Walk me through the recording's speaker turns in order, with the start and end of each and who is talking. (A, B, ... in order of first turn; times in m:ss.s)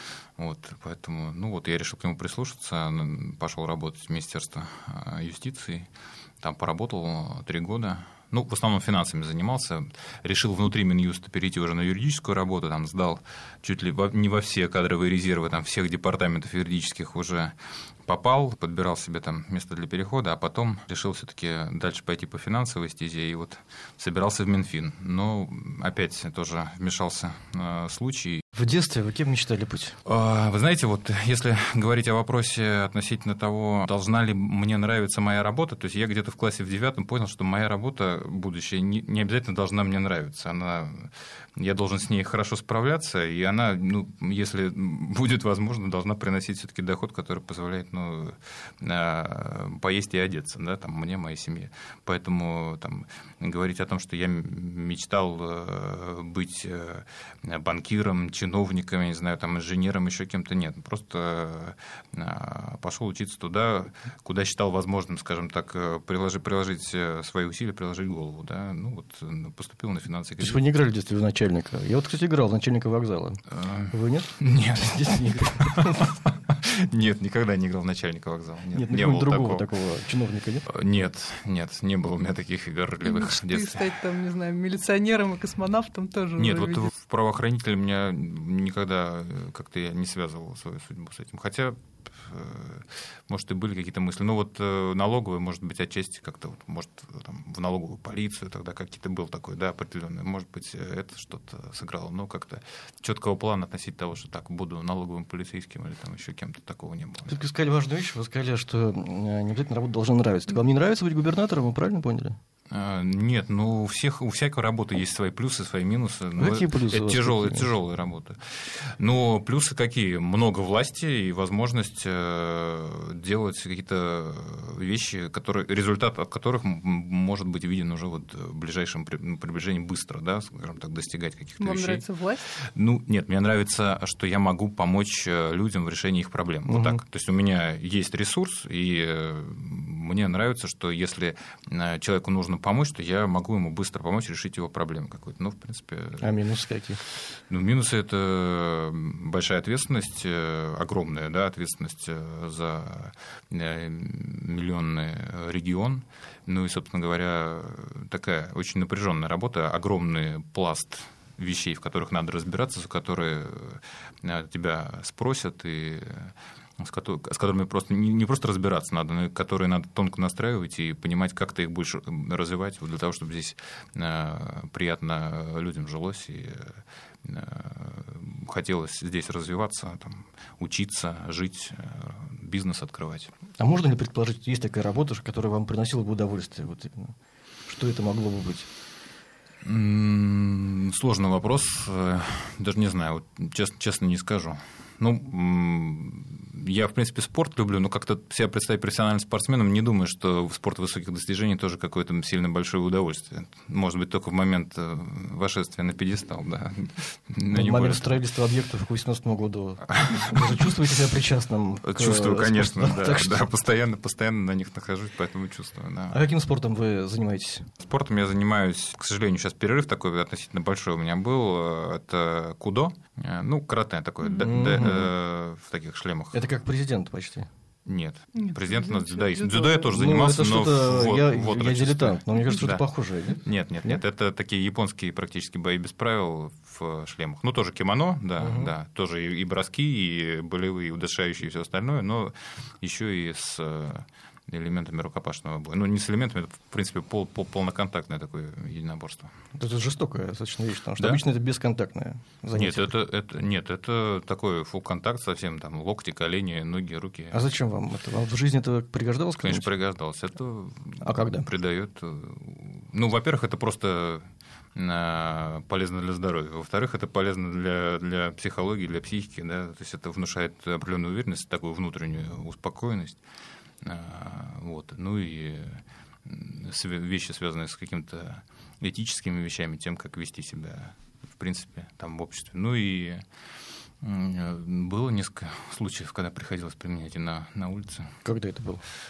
0:00.4-0:05.9 A
0:06.4-0:28.4 A
0:28.5-0:30.0 B
0:30.0-1:10.6 A
1:10.4-1:16.1 B
1:13.5-1:19.7 A
1:18.7-1:20.6 B
1:20.6-1:23.9 A
1:23.0-1:26.9 C
1:26.4-1:47.4 A
1:47.3-1:52.4 B
1:52.7-2:12.0 A
1:56.4-1:57.7 B
2:11.6-2:12.5 C
2:12.6-2:26.3 A
2:16.6-2:17.0 B
2:26.2-2:27.0 B
2:27.1-3:03.3 A
3:03.6-3:07.1 B
3:07.7-3:08.6 B
3:09.6-3:28.2 A
3:27.5-3:33.4 B
3:29.9-3:30.4 A
3:31.8-3:36.2 A
3:36.1-3:37.7 B
3:37.8-3:46.4 A
3:44.4-3:45.1 B
3:46.3-3:47.5 B
3:47.8-4:09.3 A
3:48.3-3:50.0 C
3:49.9-3:54.0 B
3:58.4-3:58.7 B
4:09.6-4:12.9 B
4:12.5-4:17.4 A
4:17.3-4:19.7 B
4:19.4-4:33.2 A
4:21.0-4:21.5 B
4:33.8-4:43.2 A
4:44.0-4:48.2 A
4:48.2-4:48.8 B